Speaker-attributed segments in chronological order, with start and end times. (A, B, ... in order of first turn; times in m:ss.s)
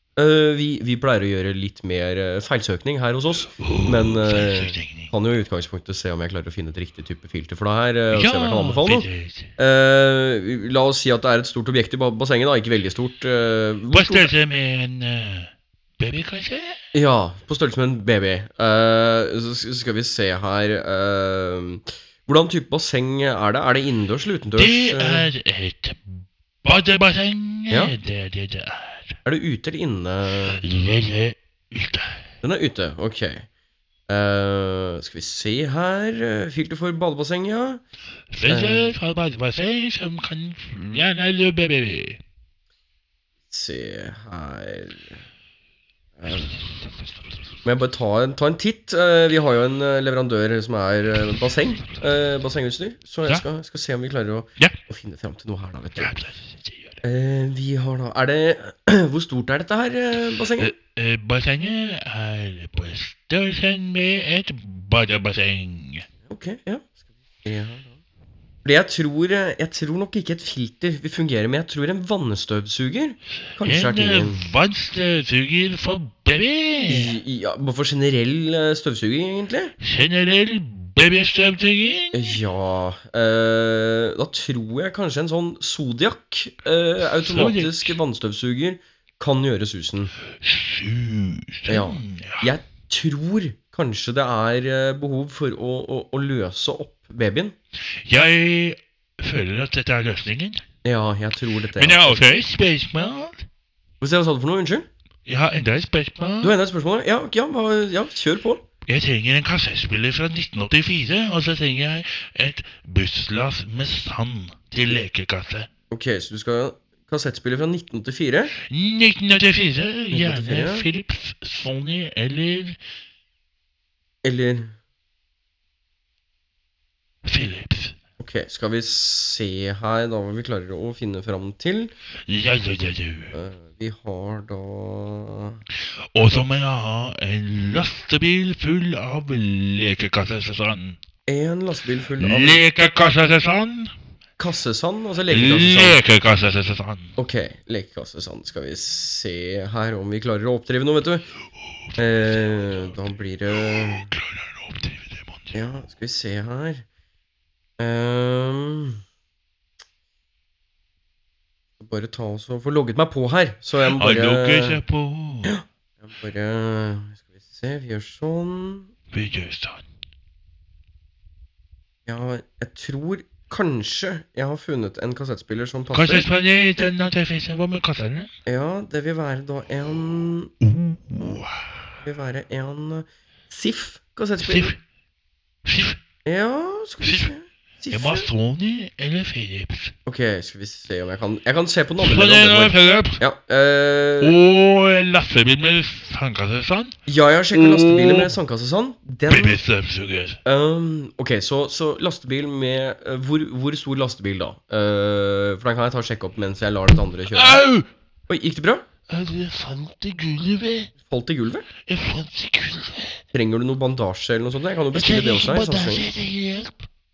0:00.2-0:14.3 A
0:03.6-0:05.1 B
0:08.1-0:09.5 B
0:13.9-0:16.8 B
0:16.9-0:25.3 A
0:24.6-0:29.2 B
0:29.2-0:30.6 A
0:30.5-0:32.2 B
0:32.4-0:33.4 A
0:34.1-0:37.8 A
0:38.3-0:42.2 B
0:38.5-0:38.9 A
0:43.5-0:45.1 A
0:46.2-0:46.5 A
0:47.6-0:56.1 A
0:56.0-0:57.0 B
0:57.0-1:00.7 A
1:00.6-1:06.1 B
1:06.3-1:06.9 A
1:07.4-1:08.0 A
1:08.6-1:14.4 A
1:13.6-1:17.2 B
1:16.9-1:19.7 A
1:19.8-1:22.3 B
1:22.1-1:30.1 A
1:27.2-1:28.0 B
1:30.4-1:32.5 B
1:31.7-1:37.6 A
1:38.0-1:40.6 B
1:40.8-1:42.2 A
1:41.8-1:43.4 B
1:44.0-1:44.9 A
1:45.2-1:46.5 B
1:46.4-1:48.6 A
1:48.9-1:55.7 B
1:55.9-1:58.5 A
1:58.7-2:02.8 B
2:00.1-2:00.8 A
2:04.2-2:04.7 A
2:07.2-2:07.9 B
2:08.2-2:11.9 A
2:12.3-2:13.3 B
2:13.3-2:15.6 A
2:16.1-2:21.0 B
2:21.2-2:22.6 A
2:22.2-2:23.9 B
2:24.4-2:26.0 A
2:25.3-2:27.1 B
2:27.2-2:31.3 A
2:32.0-2:34.1 A
2:32.2-2:32.9 B
2:33.5-2:35.6 B
2:35.5-2:36.8 A
2:37.8-2:39.0 A
2:41.8-2:44.8 A
2:43.9-2:45.6 B
2:45.4-2:48.9 A
2:49.1-2:49.8 B
2:52.0-2:56.3 A
2:55.9-2:58.3 B
2:58.4-3:00.5 A
3:00.6-3:01.8 B
3:02.0-3:04.7 A
3:04.4-3:04.8 B
3:05.6-3:06.0 B
3:06.2-3:08.3 A
3:07.0-3:07.3 B
3:07.9-3:09.9 B
3:10.0-3:14.3 A
3:12.0-3:13.2 B
3:14.2-3:16.9 B
3:17.1-3:19.6 A
3:17.5-3:18.3 B
3:19.3-3:20.4 B
3:20.4-3:27.6 A
3:27.3-3:27.8 B
3:28.3-3:28.8 A
3:29.1-3:30.9 B
3:31.0-3:31.7 A
3:31.9-3:33.2 B
3:33.3-3:36.0 A
3:34.9-3:36.8 B